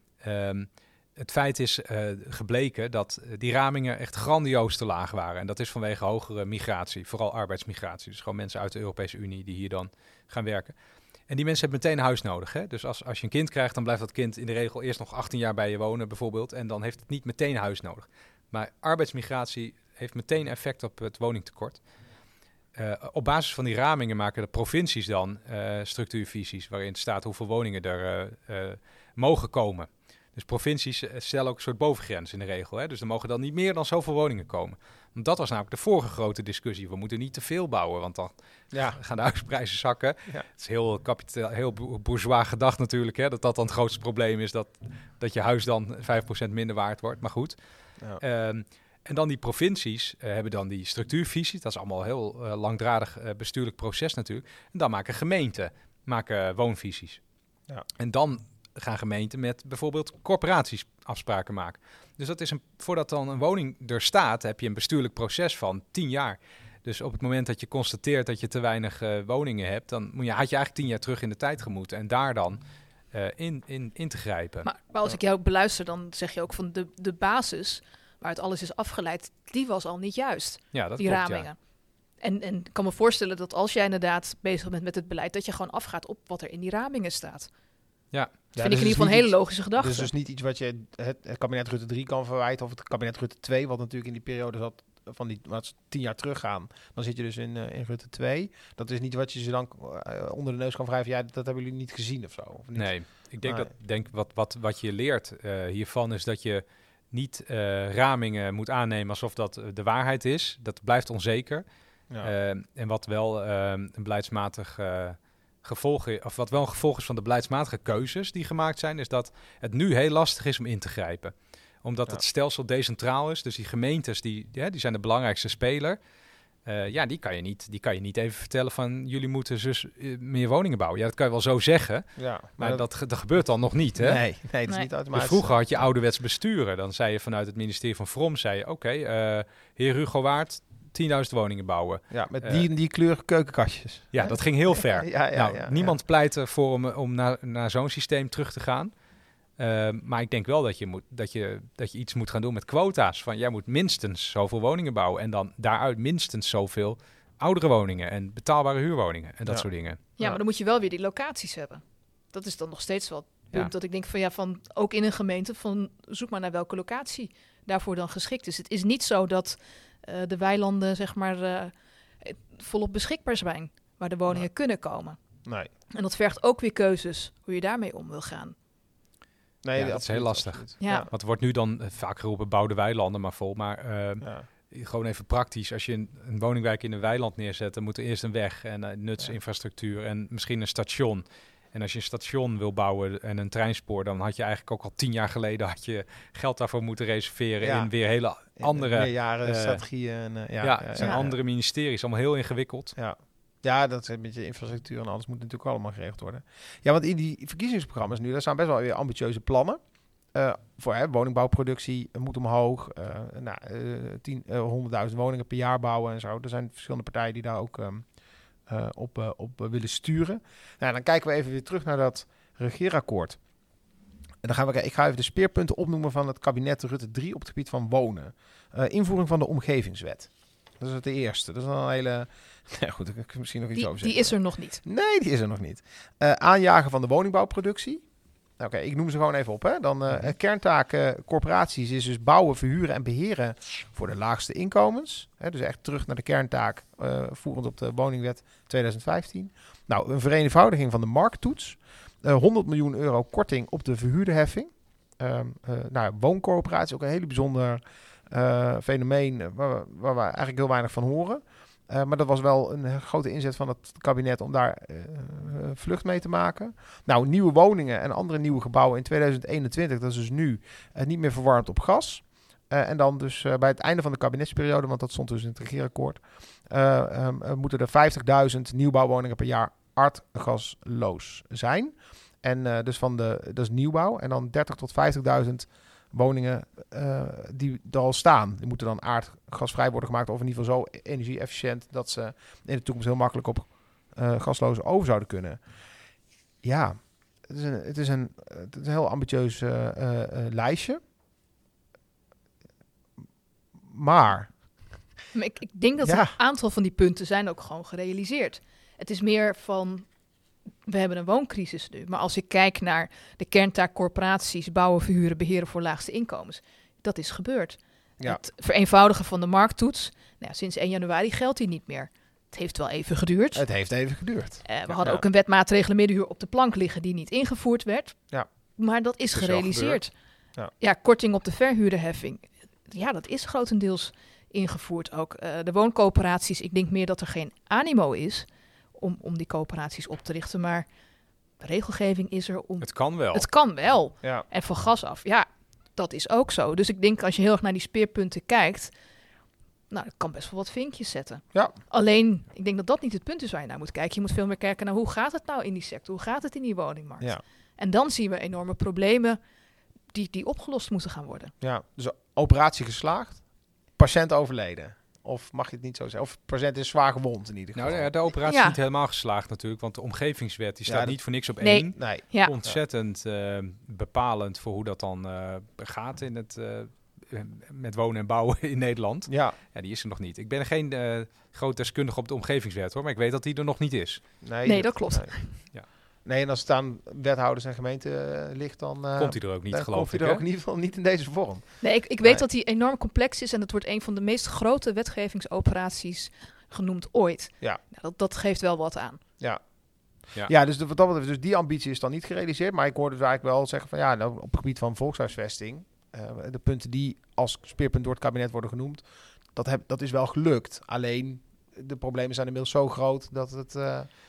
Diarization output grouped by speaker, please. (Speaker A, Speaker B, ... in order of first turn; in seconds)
Speaker A: 0.2-10.8, 11.3-21.9, 22.8-57.2, 58.0-74.7, 80.7-81.5, 102.8-111.7, 112.2-126.0, 126.7-134.2, 135.1-142.7, 144.1-148.9, 149.6-160.0, 179.8-199.9, 200.6-202.9, 329.4-329.9, 342.8-343.5, 367.7-384.4, 389.2-390.4
Speaker B: 38.7-39.0, 88.5-103.7, 132.2-132.8, 134.0-135.5, 142.1-146.0, 159.5-160.4, 175.4-175.7, 179.6-181.1, 184.2-184.5, 197.6-197.9, 198.6-201.4, 202.9-209.8, 210.3-223.4, 224.4-238.1, 238.6-295.7, 296.6-301.0, 303.8-304.6, 306.0-306.3, 323.5-325.2, 329.4-330.0, 361.6-368.1, 370.9-371.2, 371.9-372.8, 379.3-379.6, 384.4-392.4, 399.4-414.1
Speaker C: 74.6-81.6, 82.2-87.5, 88.6-90.1, 160.2-175.2, 175.9-178.6, 180.8-181.1, 233.8-234.8, 305.3-310.1, 310.9-323.6, 324.6-330.1, 330.8-340.9, 341.6-348.9, 349.9-359.4, 360.1-361.5, 368.5-368.8, 371.6-372.5, 384.6-385.5, 391.8-399.2